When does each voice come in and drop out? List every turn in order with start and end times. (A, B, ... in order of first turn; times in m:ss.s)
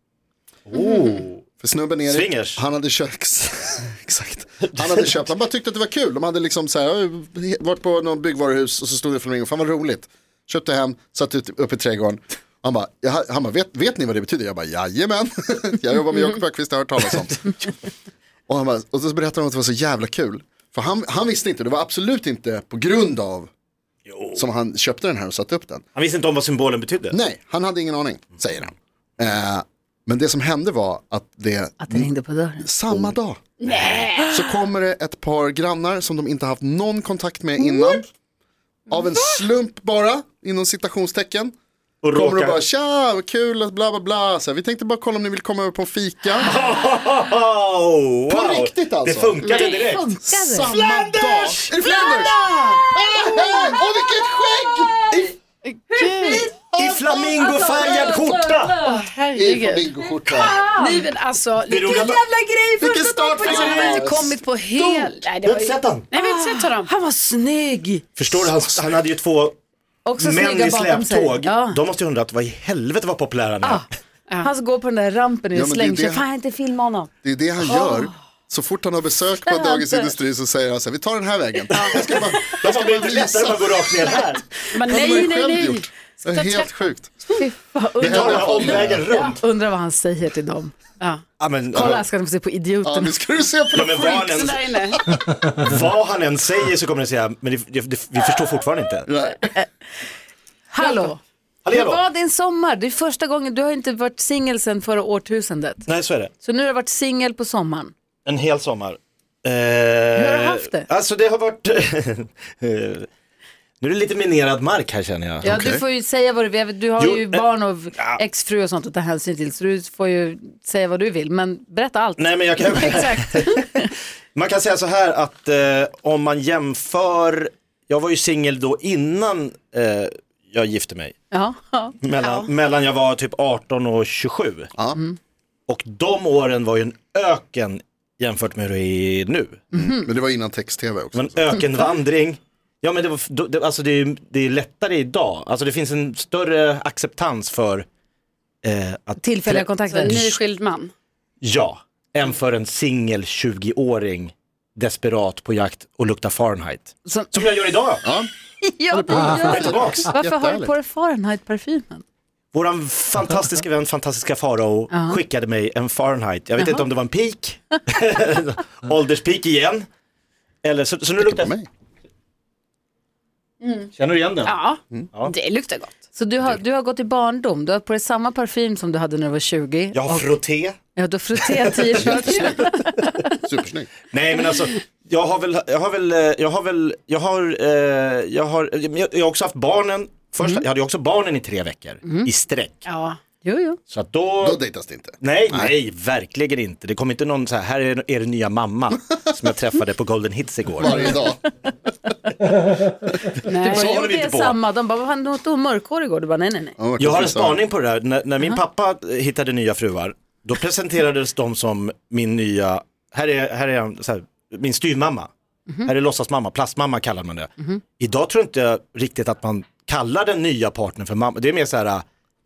0:00.7-0:01.4 A
0:01.6-0:17.7 B
0:02.1-0:02.6 A
0:04.7-0:05.3 A
0:18.5-0:23.5 B
0:24.1-0:24.5 A
0:24.4-0:25.8 B
0:26.0-0:27.2 A
0:27.1-0:33.4 B
0:31.8-0:33.0 C
0:33.6-0:34.4 D
0:33.7-0:34.0 A
0:34.3-0:38.1 B
0:38.9-0:41.5 B
0:42.0-0:42.6 A
0:42.1-0:46.6 B
0:46.4-0:50.0 A
0:48.3-0:49.4 B
0:49.4-0:49.8 D
0:49.5-0:50.7 C
0:50.2-0:52.4 B
0:50.6-0:51.7 A
0:52.1-0:52.8 D
0:52.9-0:54.2 C
0:52.9-0:55.0 B
0:55.6-0:56.5 D
0:55.9-0:59.0 C
0:56.3-0:58.8 A
0:58.8-1:02.2 D
0:59.4-1:00.6 B
1:00.1-1:01.0 C
1:01.7-1:02.2 A
1:01.9-1:03.4 C
1:02.8-1:04.0 A
1:02.8-1:04.4 B
1:03.3-1:06.9 D
1:05.4-1:06.1 A
1:06.1-1:08.1 C
1:08.2-1:09.6 A
1:10.1-1:11.8 C
1:10.2-1:13.8 A
1:14.4-1:17.1 C
1:15.5-1:16.2 B
1:17.2-1:24.2 B
1:19.5-1:20.1 C
1:21.8-1:24.5 A
1:24.7-1:25.9 D
1:24.8-1:25.4 C
1:24.9-1:27.2 B
1:26.3-1:26.6 C
1:27.3-1:30.7 C
1:28.0-1:29.0 B
1:28.0-1:29.4 A
1:31.4-1:32.0 A
1:31.7-1:33.2 C
1:32.8-1:34.2 B
1:33.7-1:34.7 A
1:33.8-1:35.0 D
1:34.9-1:35.2 B
1:35.6-1:39.1 A
1:39.1-1:39.6 B
1:40.7-1:45.8 C
1:41.6-1:42.0 A
1:45.9-1:46.3 A
1:46.4-1:47.9 C
1:48.3-1:53.1 A
1:50.2-1:50.9 C
1:53.8-1:55.6 A
1:55.4-1:55.8 B
1:55.4-2:03.0 C
1:57.0-1:57.4 A
2:02.2-2:03.7 A
2:02.8-2:03.6 D
2:04.4-2:11.2 A
2:11.3-2:12.0 C
2:12.0-2:14.7 A
2:12.2-2:12.5 D
2:15.7-2:19.6 A
2:19.7-2:20.1 C
2:19.7-2:21.6 B
2:21.1-2:27.9 A
2:28.6-2:30.3 A
2:29.2-2:30.2 C
2:29.9-2:30.9 D
2:31.4-2:38.0 A
2:37.1-2:37.3 C
2:38.0-2:38.3 B
2:38.6-2:42.0 C
2:38.9-2:40.7 B
2:39.2-2:40.1 A
2:42.5-2:49.9 A
2:44.9-2:45.2 C
2:50.6-2:51.5 A
2:51.2-2:51.7 B
2:53.6-2:53.9 D
2:53.9-2:54.6 A
2:54.4-2:55.9 D
2:56.1-3:00.3 C
2:59.9-3:00.8 A
3:01.0-3:03.3 C
3:01.9-3:02.8 B
3:03.4-3:03.9 B
3:04.1-3:12.8 A
3:12.9-3:13.2 D
3:13.4-3:13.8 C
3:13.9-3:14.6 A
3:14.4-3:15.8 B
3:15.2-3:21.2 A
3:20.8-3:21.4 B
3:23.4-3:24.0 D
3:23.6-3:26.8 C
3:23.7-3:24.6 A
3:26.8-3:27.6 B
3:27.0-3:35.3 A
3:35.8-3:42.0 A